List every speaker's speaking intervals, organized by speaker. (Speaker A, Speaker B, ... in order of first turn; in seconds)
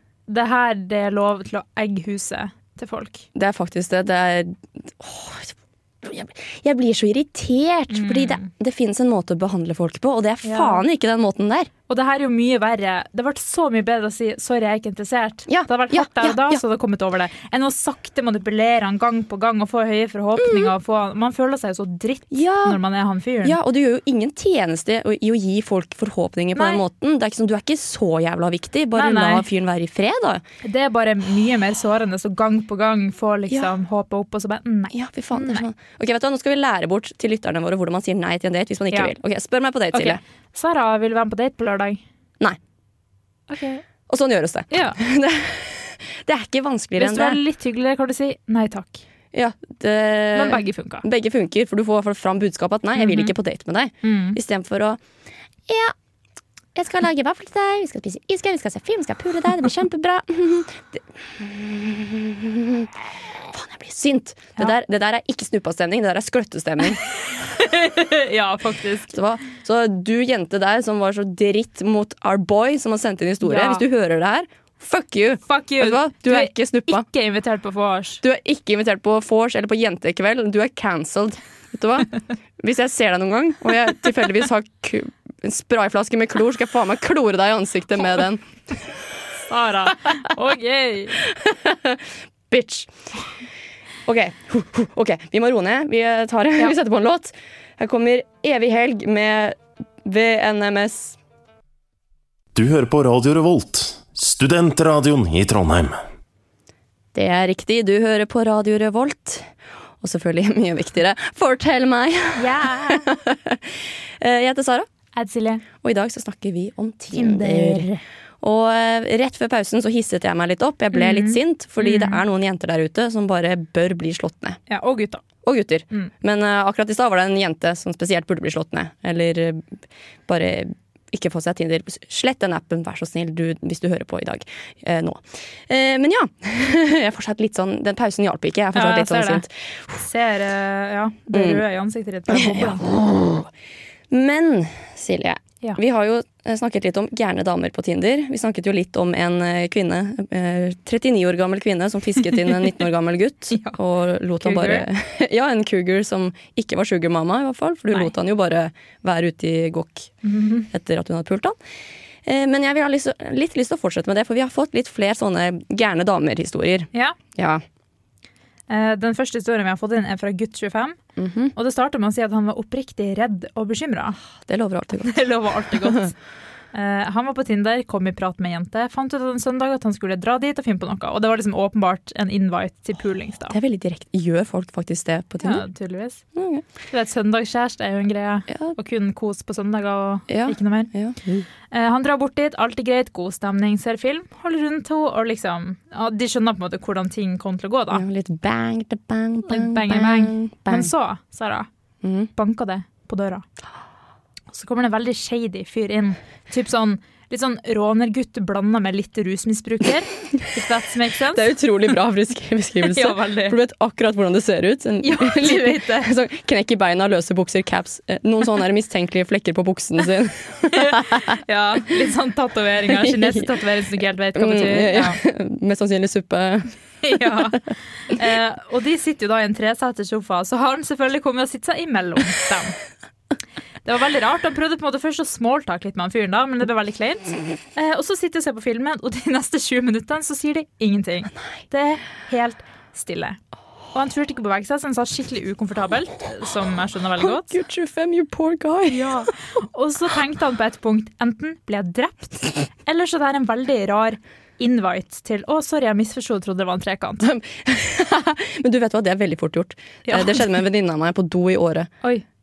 Speaker A: 0.3-3.3, 7.9-8.5, 10.4-10.8, 11.9-23.6, 26.6-26.8, 28.9-29.5, 30.6-35.7, 39.9-42.0, 43.5-43.9, 44.7-45.0, 47.0-49.0, 50.3-51.0, 53.0-53.3, 54.0-54.4, 67.4-69.1, 73.4-73.8, 75.5-78.2, 89.5-91.2, 112.3-113.1, 115.2-115.6, 117.1-118.0, 120.9-122.2, 124.7-125.2, 138.7-139.4, 140.0-142.9, 153.5-153.8, 154.4-154.9, 160.2-160.7, 168.7-171.0, 171.6-174.2, 175.0-176.1, 176.7-183.6, 185.4-186.2, 186.9-190.9, 191.7-198.0, 199.5-201.7, 202.3-203.4, 204.5-211.5, 212.8-213.6, 215.0-216.1, 220.7-225.2, 227.0-232.8, 233.8-243.4, 243.9-247.5, 248.9-257.3, 260.1-260.5
Speaker B: 3.4-11.7, 15.5-16.6, 20.4-20.7, 22.3-22.8, 23.4-30.4, 34.9-40.2, 44.1-47.4, 49.3-55.0, 55.7-55.9, 56.8-67.0, 69.1-77.0, 78.2-88.4, 91.3-92.9, 94.1-101.2, 107.1-109.5, 110.0-114.9, 115.8-117.9, 118.4-124.6, 125.4-140.0, 141.3-141.6, 142.3-143.5, 144.1-160.1, 160.7-161.6, 162.2-167.6, 171.2-171.5, 174.4-176.0, 183.5-185.7, 186.3-186.6, 190.3-191.5, 197.9-200.9, 202.0-202.3, 211.3-221.2, 222.9-223.5, 224.3-226.7, 247.2-249.2, 257.2-261.9
Speaker C: 102.5-106.0